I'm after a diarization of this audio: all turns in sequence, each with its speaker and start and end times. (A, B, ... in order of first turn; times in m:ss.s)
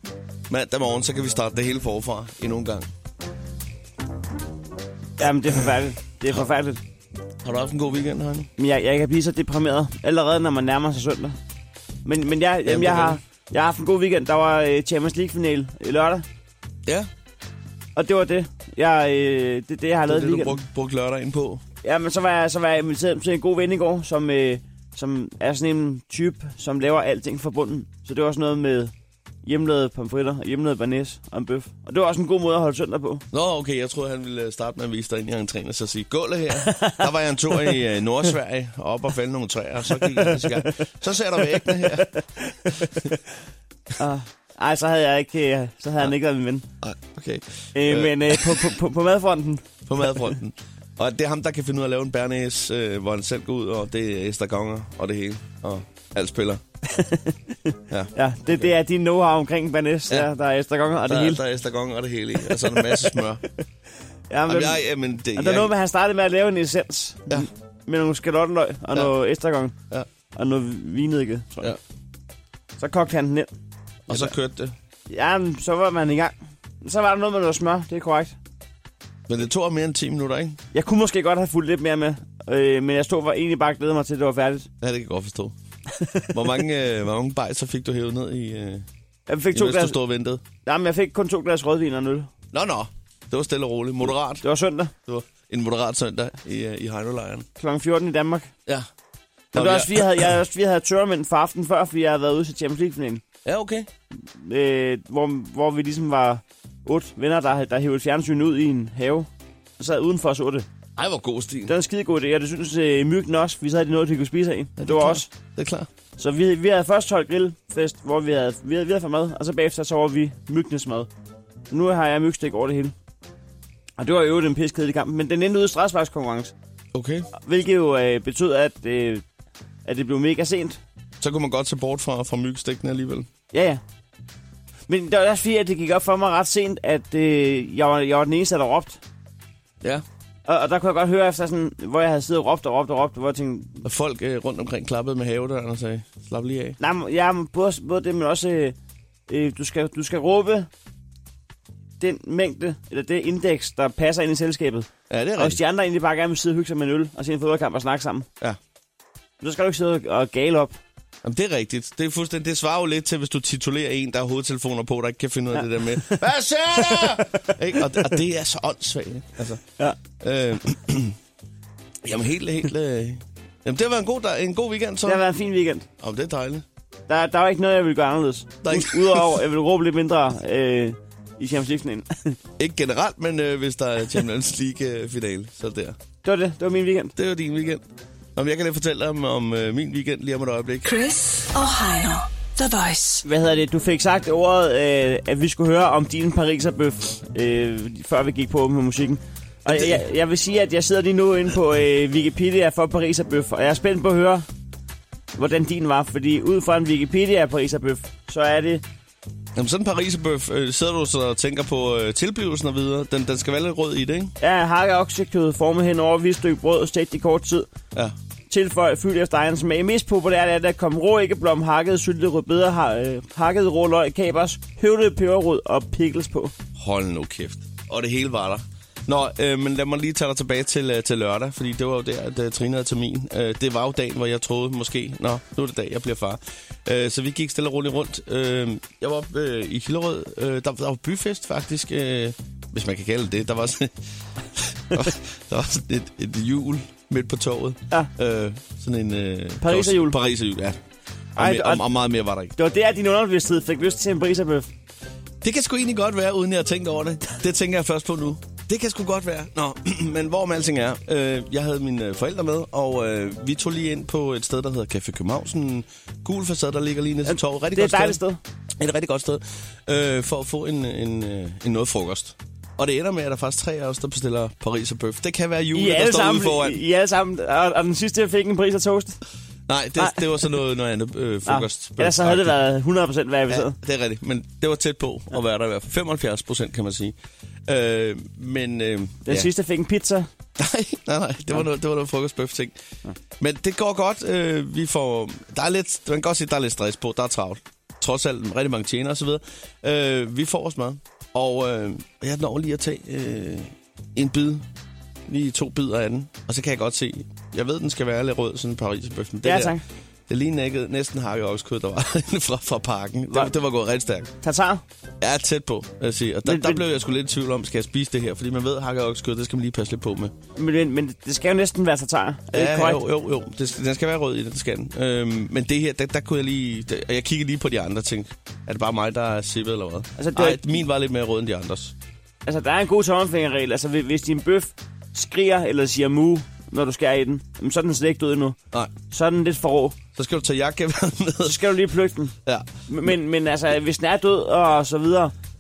0:00.5-0:02.9 A
0:05.2-0:06.8 B
0:07.4-0:08.5 A
0:08.6-0:11.4 B
0:12.0-0:16.2 B
0:12.6-0:13.2 A
0:18.0-0:20.6 B
0:20.1-0:21.6 A
0:21.8-0:28.9 B
0:29.4-0:33.2 B
0:33.3-0:42.1 A
0:36.7-0:37.0 B
0:40.0-0:40.7 B
0:41.7-0:43.2 B
0:44.0-0:46.7 B
0:46.8-0:48.7 A
0:47.7-0:49.7 B
0:49.8-0:56.6 A
0:56.9-1:01.4 B
0:57.9-0:58.6 A
1:01.0-1:03.4 A
1:02.7-1:03.0 B
1:04.3-1:09.7 B
1:04.5-1:05.7 A
1:10.3-1:11.7 B
1:12.8-1:13.5 B
1:14.1-1:14.8 A
1:15.1-1:18.4 B
1:19.3-1:20.6 A
1:20.7-1:24.7 B
1:24.8-1:25.5 A
1:26.3-1:28.8 A
1:29.3-1:30.0 B
1:29.5-1:30.4 A
1:30.7-1:32.3 B
1:32.5-1:34.4 A
1:34.4-1:34.9 B
1:35.1-1:37.5 A
1:37.6-1:38.5 B
1:39.5-1:40.3 A
1:39.5-1:43.2 B
1:43.4-1:43.9 A
1:44.2-1:49.3 B
1:49.8-1:50.7 B
1:51.0-1:51.8 A
1:51.7-1:55.3 B
1:54.8-1:55.9 A
1:56.2-2:01.1 B
2:01.7-2:02.9 B
2:04.0-2:06.5 B
2:06.9-2:07.3 A
2:07.4-2:09.2 B
2:09.8-2:10.8 B
2:11.2-2:13.3 A
2:13.5-2:13.8 B
2:14.9-2:19.0 B
2:20.4-2:23.8 B
2:23.8-2:26.8 A
2:26.8-2:28.8 B
2:29.3-2:30.7 B
2:32.0-2:38.3 B
2:35.1-2:35.6 A
2:39.4-2:40.8 B
2:41.2-2:49.6 A
2:46.9-2:47.5 B
2:50.2-2:51.2 A
2:52.0-2:55.2 A
2:55.1-2:55.9 B
2:56.0-2:56.6 A
2:57.1-3:02.4 B
2:58.6-2:59.4 A
3:02.6-3:06.0 A
3:06.2-3:07.1 B
3:07.2-3:10.9 A
3:10.8-3:13.2 C
3:13.2-3:24.4 B
3:19.7-3:20.0 A
3:25.4-3:28.8 B
3:29.5-3:34.3 A
3:34.4-3:37.7 B
3:38.5-3:46.5 B
3:46.8-4:03.9 A
4:04.6-4:10.8 A
4:09.6-4:10.2 B
4:11.4-4:11.8 B
4:11.4-4:12.6 A
4:12.6-4:14.7 B
4:15.4-4:28.2 A
4:27.2-4:28.4 B
4:28.8-4:36.8 A
4:35.7-4:39.2 B
4:39.7-4:42.6 A
4:41.5-4:43.8 B
4:43.5-4:47.2 A
4:47.7-4:49.5 A
4:49.2-4:50.3 B
4:50.6-4:52.8 A
4:53.4-5:04.6 A
5:05.3-5:09.8 A
5:09.4-5:09.8 B
5:10.3-5:14.3 A
5:14.4-5:14.8 B
5:15.2-5:20.3 A
5:16.4-5:16.8 B
5:20.6-5:23.0 B
5:22.5-5:31.9 A
5:30.2-5:30.6 B
5:32.4-5:38.6 B
5:39.1-5:40.0 B
5:40.1-5:41.7 A
5:41.4-5:42.3 B
5:42.9-5:45.3 B